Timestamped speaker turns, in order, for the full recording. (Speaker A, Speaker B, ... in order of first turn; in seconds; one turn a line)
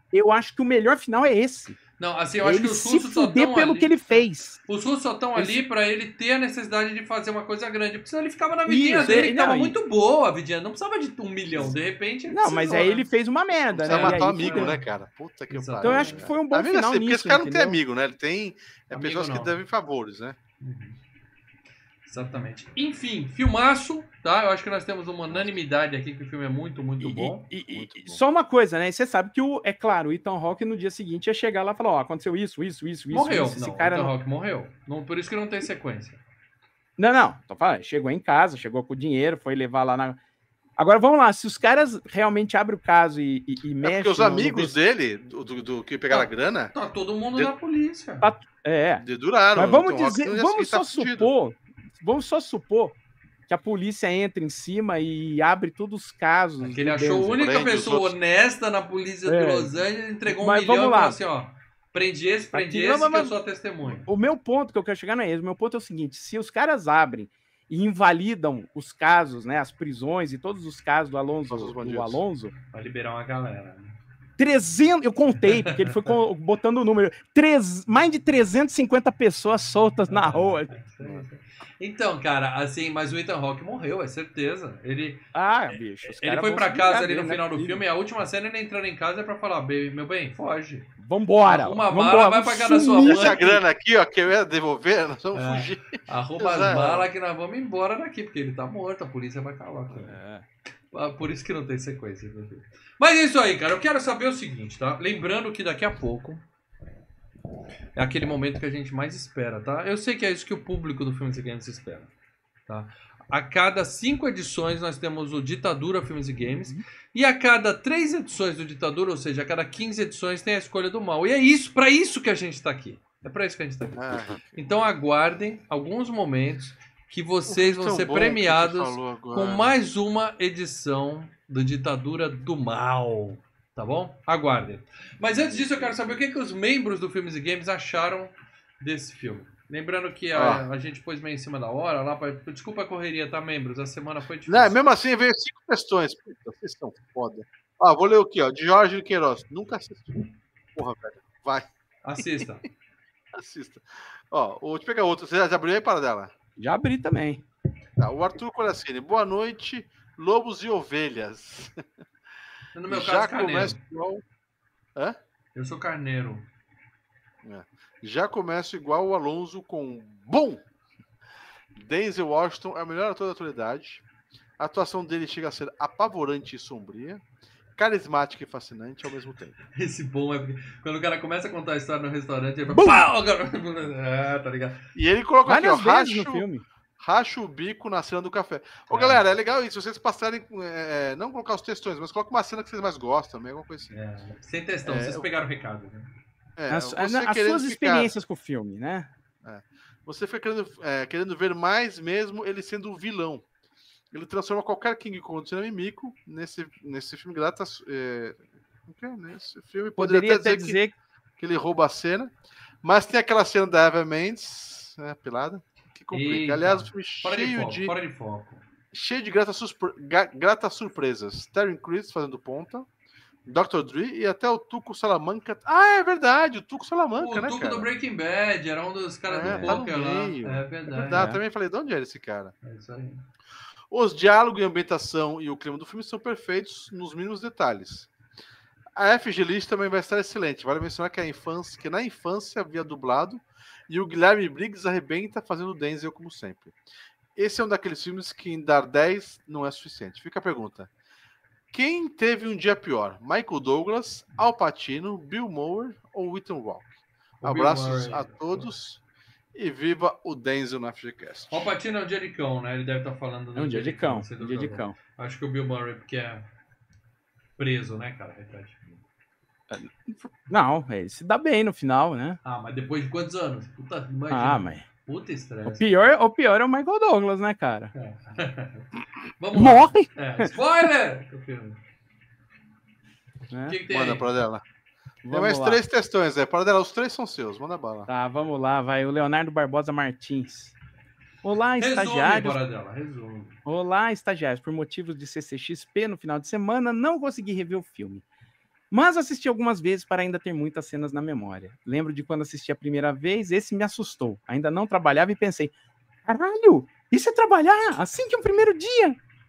Speaker A: 0.1-1.8
Speaker B: 2.0-13.1
Speaker A: 2.4-4.6
Speaker A: 5.3-5.6
Speaker A: 8.7-9.8
Speaker A: 12.3-14.8
Speaker C: 13.7-20.4
Speaker B: 13.9-14.8
Speaker B: 15.5-16.2
Speaker A: 15.8-17.8
Speaker B: 18.9-19.6
Speaker B: 20.6-21.0
Speaker B: 22.1-27.5
Speaker C: 25.3-25.6
Speaker A: 27.0-34.1
Speaker C: 27.7-28.2
Speaker B: 33.1-36.2
Speaker A: 37.0-40.2
Speaker A: 40.8-44.7
Speaker C: 43.8-46.7
Speaker B: 46.1-48.3
Speaker A: 48.2-49.0
Speaker C: 49.0-51.3
Speaker A: 49.5-53.0
Speaker A: 53.5-57.3
Speaker B: 56.6-64.1
Speaker C: 57.3-58.1
Speaker A: 59.3-59.7
Speaker A: 60.3-61.2
Speaker A: 62.5-63.4
Speaker A: 64.0-72.5
Speaker C: 71.5-72.2
Speaker B: 72.7-74.0
Speaker A: 74.4-80.7
Speaker B: 75.5-76.2
Speaker B: 80.1-90.9
Speaker A: 85.3-87.8
Speaker A: 91.0-93.6
Speaker B: 91.4-93.4
Speaker C: 93.0-97.1
Speaker B: 95.3-100.2
Speaker A: 100.0-100.5
Speaker B: 100.9-106.4
Speaker B: 108.0-112.1
Speaker B: 112.7-144.8
Speaker C: 124.0-124.6
Speaker C: 127.5-129.7
Speaker C: 140.3-140.6
Speaker C: 144.5-151.7
Speaker B: 152.0-152.6
Speaker C: 152.2-152.4
Speaker C: 153.3-156.3
Speaker A: 156.6-157.4
Speaker C: 158.0-161.8
Speaker B: 162.7-163.8
Speaker C: 162.9-164.2
Speaker B: 165.6-166.4
Speaker C: 167.4-170.6
Speaker C: 171.8-174.0
Speaker C: 174.6-177.2
Speaker C: 177.8-179.6
Speaker B: 179.7-184.8
Speaker A: 182.7-183.1
Speaker C: 184.9-186.4
Speaker A: 185.4-186.6
Speaker C: 187.0-193.9
Speaker B: 188.9-189.2
Speaker B: 193.9-196.1
Speaker C: 194.8-195.3
Speaker C: 196.6-198.1
Speaker A: 196.7-199.1
Speaker C: 199.4-203.4
Speaker C: 204.1-210.8
Speaker A: 210.0-210.9
Speaker C: 211.4-212.3
Speaker C: 212.8-217.9
Speaker B: 216.1-218.6
Speaker C: 218.9-222.9
Speaker C: 223.4-227.9
Speaker B: 227.2-231.3
Speaker C: 229.3-232.5
Speaker A: 229.4-229.8
Speaker A: 231.0-231.4
Speaker B: 232.6-233.2
Speaker C: 233.9-238.1
Speaker C: 238.9-246.7
Speaker C: 247.3-250.9
Speaker C: 251.7-256.9
Speaker B: 257.4-258.7
Speaker C: 257.4-259.0
Speaker C: 259.5-261.7
Speaker B: 261.5-266.4
Speaker A: 263.6-264.9
Speaker B: 267.6-269.0
Speaker A: 269.7-272.4
Speaker B: 272.4-275.9
Speaker A: 274.3-274.9
Speaker A: 275.6-277.9
Speaker B: 277.9-278.9
Speaker B: 279.4-281.8
Speaker A: 279.5-280.5
Speaker A: 283.5-283.8
Speaker B: 283.7-284.3
Speaker C: 283.9-284.6
Speaker A: 285.2-285.8
Speaker C: 285.3-288.1
Speaker A: 288.1-290.7
Speaker A: 291.4-292.6
Speaker B: 291.8-293.6
Speaker A: 293.6-298.2
Speaker A: 298.9-305.7
Speaker A: 306.3-309.2